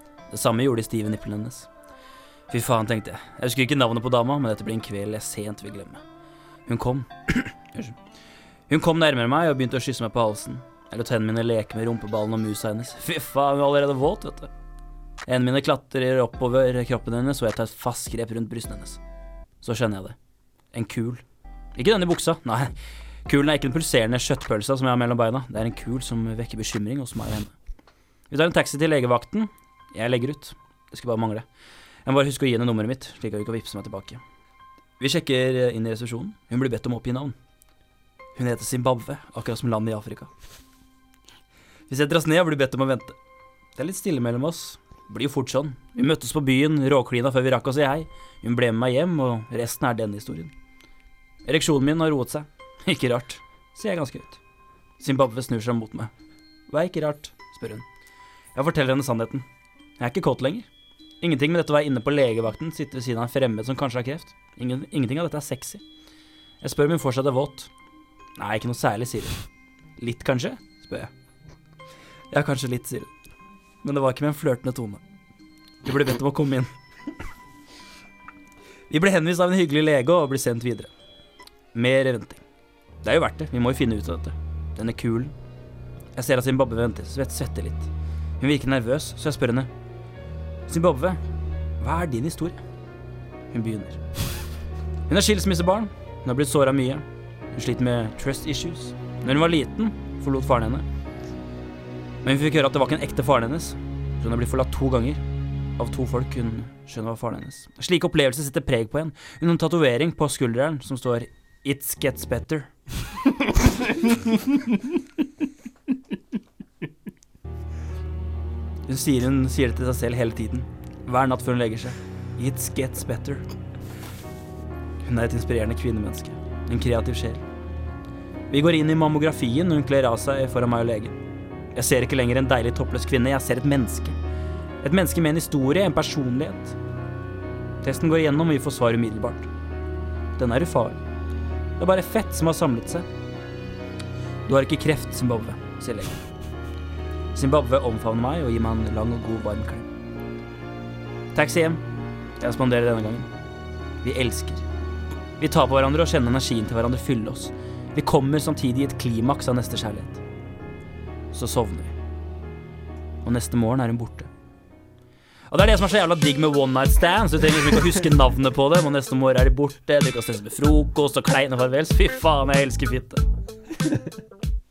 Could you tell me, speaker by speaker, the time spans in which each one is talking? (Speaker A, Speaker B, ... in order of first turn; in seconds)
Speaker A: 0.3-1.7, 2.5-6.0, 6.7-8.0, 8.7-14.5, 15.3-19.0, 19.6-20.2, 20.7-21.2, 21.8-22.7, 23.3-27.5, 28.3-31.4, 32.1-34.2, 35.0-37.4, 38.4-40.3, 41.9-43.1, 43.8-50.5, 51.5-54.4, 55.0-56.1, 56.7-57.9, 58.5-59.5, 60.0-60.7, 61.2-65.8, 66.6-67.7, 68.4-69.4, 70.0-71.1, 72.3-73.1, 73.8-75.0, 75.8-76.7, 78.9-80.9, 81.7-82.4, 83.0-85.3, 86.2-87.9, 88.4-89.7, 90.7-91.2, 91.8-92.6, 93.5-94.0, 95.1-100.8, 102.2-105.2, 105.8-112.7, 118.9-123.4, 125.0-127.4, 128.5-131.2, 131.8-134.2, 134.8-136.8, 137.8-139.5, 140.4-141.0, 141.8-143.1, 144.5-146.2, 147.3-149.9, 151.3-151.8, 152.4-153.3, 154.0-154.6, 155.4-160.2, 161.3-161.9, 163.2-164.3, 165.5-173.2